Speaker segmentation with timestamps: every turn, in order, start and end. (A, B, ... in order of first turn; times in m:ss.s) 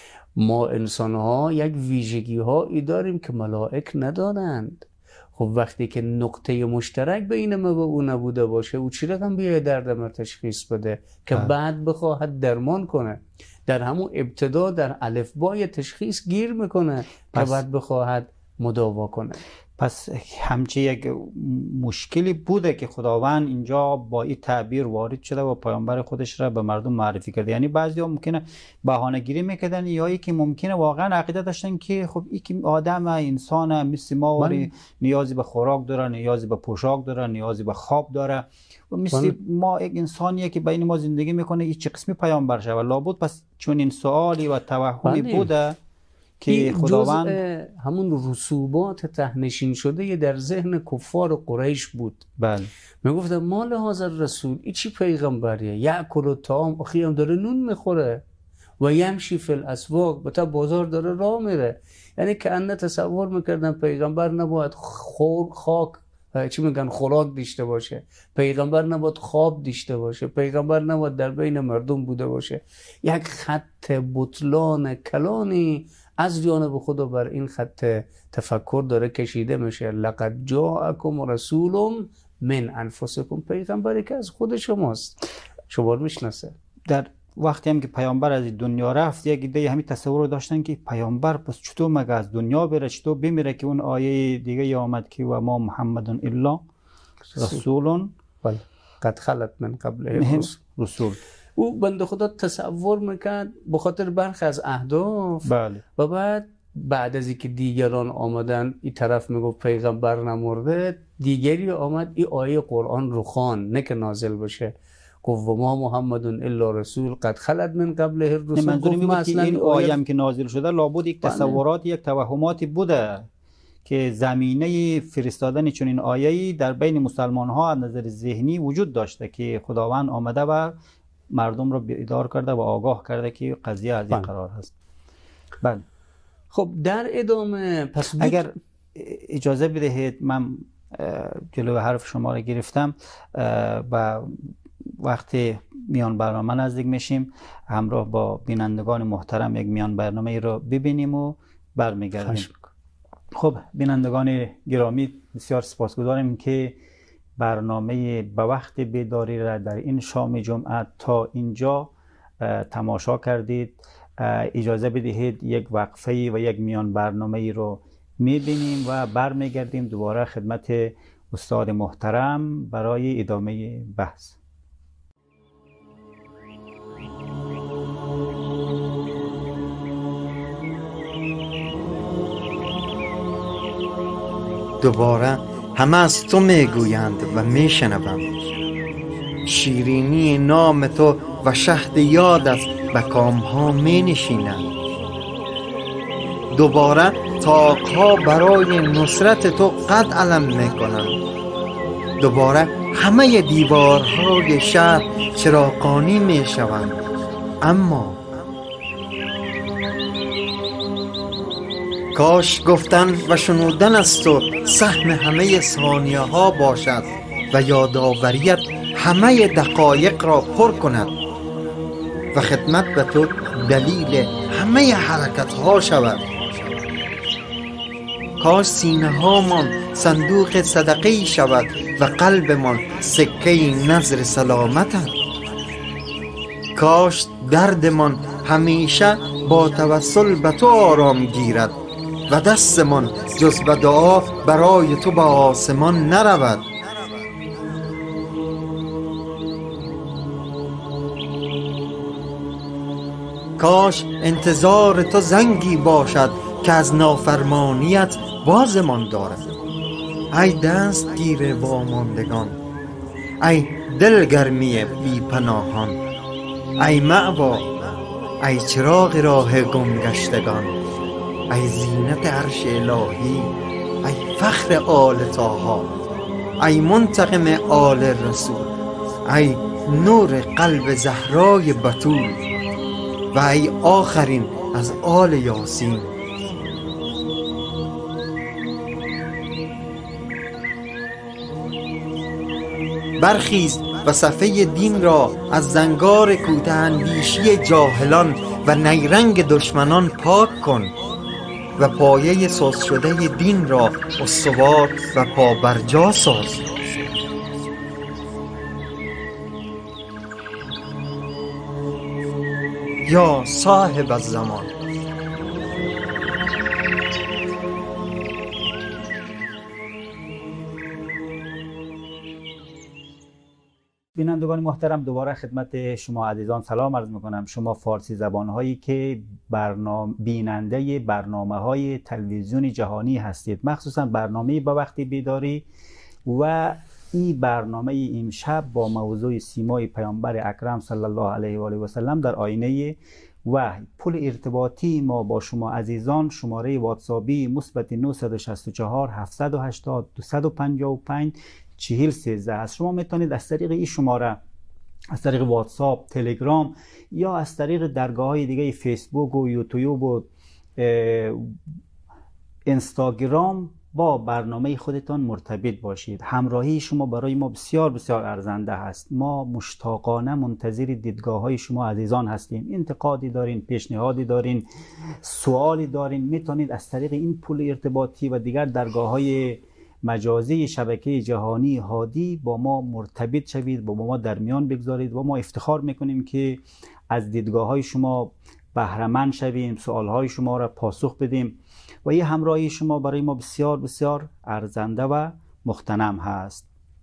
0:00.4-0:19.4 A
0:17.3-0:17.6 B
0:19.8-0:45.8 B
0:34.4-0:34.7 A
0:45.0-0:45.5 A
0:46.4-0:47.4 B
0:46.5-0:52.3 A
0:52.4-0:52.7 B
0:53.0-0:58.2 A
0:58.8-1:25.2 A
1:25.7-1:26.5 A
1:26.9-1:36.6 B
1:37.3-1:37.6 A
1:37.4-1:38.1 B
1:38.4-1:40.6 A
1:40.1-1:41.2 B
1:41.6-1:54.7 A
1:45.4-1:45.8 B
1:55.2-2:00.0 A
1:58.6-2:03.3 B
2:01.2-2:01.6 A
2:03.8-2:10.7 B
2:11.3-2:14.7 B
2:16.5-2:18.5 A
2:18.2-2:32.5 B
2:32.2-2:32.6 A
2:33.3-2:36.8 B
2:37.4-2:54.4 B
3:04.8-3:08.2 C
3:09.4-3:14.6 C
3:16.5-3:21.2 C
3:22.2-3:27.0 C
3:27.6-3:28.2 C
3:32.1-3:41.1 C
3:42.3-3:46.3 C
3:48.4-3:55.1 C
3:56.8-4:01.7 C
4:02.3-4:06.6 C
4:13.6-4:19.4 C
4:20.3-4:22.6 C
4:23.4-4:26.0 C
4:26.8-4:27.7 C
4:28.4-4:30.7 C
4:31.5-4:33.5 C
4:34.0-4:35.9 C
4:36.6-4:38.7 C
4:39.3-4:42.4 C
4:43.3-4:46.1 C
4:53.2-5:00.9 C
5:01.8-5:06.6 C
5:13.0-5:14.7 C
5:24.2-5:35.6 B
5:36.3-5:54.4 B
5:55.1-6:01.5 B
6:02.7-6:14.7 B
6:15.2-6:36.7 B